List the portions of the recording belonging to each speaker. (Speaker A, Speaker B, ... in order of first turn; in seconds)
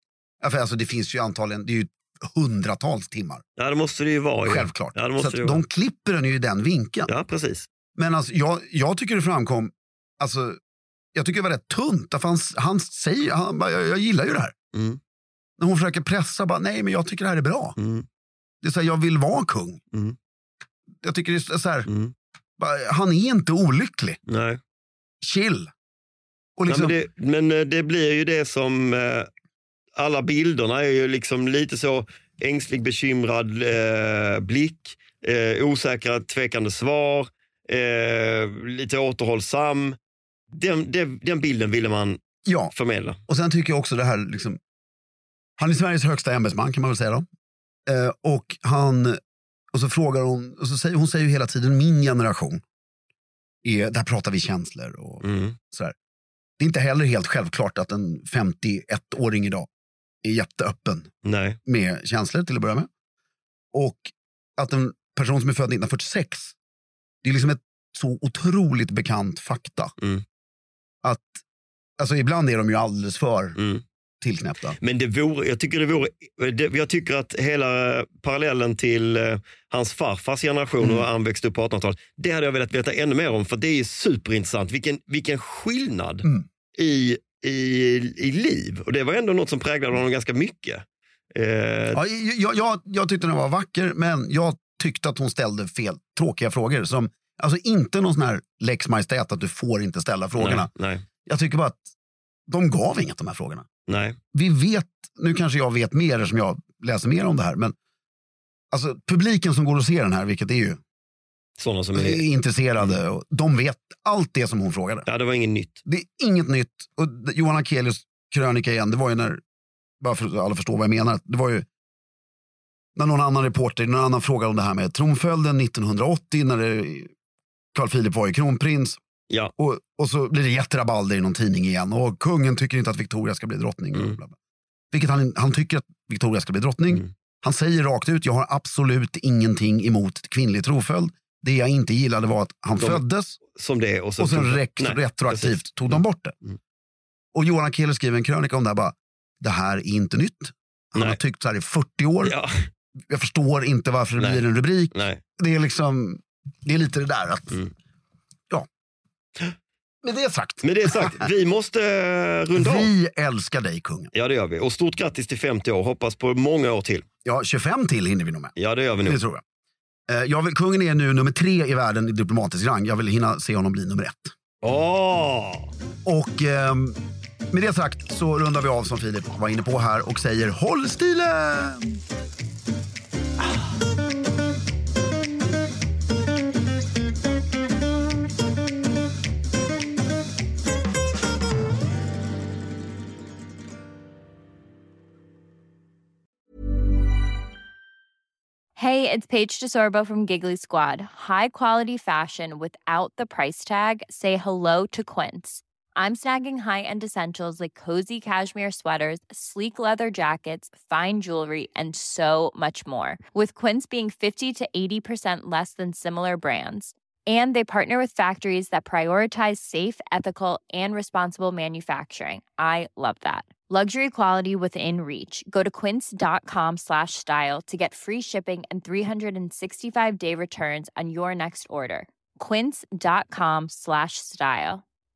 Speaker A: 0.4-3.4, 4.5-7.1, 8.0-10.6, 11.2-14.5, 15.6-17.8, 18.6-19.8, 21.0-21.9, 22.6-24.2, 25.2-25.7, 26.6-27.0, 42.5-42.7, 43.3-44.6, 45.6-47.3, 47.9-49.2, 49.7-52.6, 53.6-55.9, 56.6-59.7, 60.2-61.1, 61.7-62.9, 63.7-66.5, 67.2-69.9, 71.0-71.4, 72.0-73.6, 74.2-74.8, 91.9-100.7, 101.3-101.8, 102.5-103.7, 104.3-107.8, 108.7-110.8, 112.0-115.1, 115.9-119.4, 120.0-121.7, 123.0-127.1, 127.7-129.0, 129.6-134.3, 134.9-143.4, 144.2-146.3, 147.3-152.3, 153.1-157.6, 160.0-161.3, 162.6-164.1, 167.2-168.5, 169.0-169.4, 170.1-174.3, 176.1-177.0, 177.5-181.9
Speaker B: 3.6-5.6, 7.1-7.7, 14.7-15.0, 17.8-18.1, 21.9-22.1, 24.3-24.6, 26.7-29.3, 30.0-40.0, 40.5-42.2, 42.7-43.2, 55.2-55.6, 61.2-61.6, 73.6-73.8, 74.8-92.0, 100.4-101.0, 103.9-104.2, 111.6-112.2, 115.1-115.8, 142.8-146.6, 152.2-152.5, 154.2-155.2, 160.6-162.9, 164.1-167.1, 168.6-169.2, 174.6-175.7
Speaker C: 198.8-234.8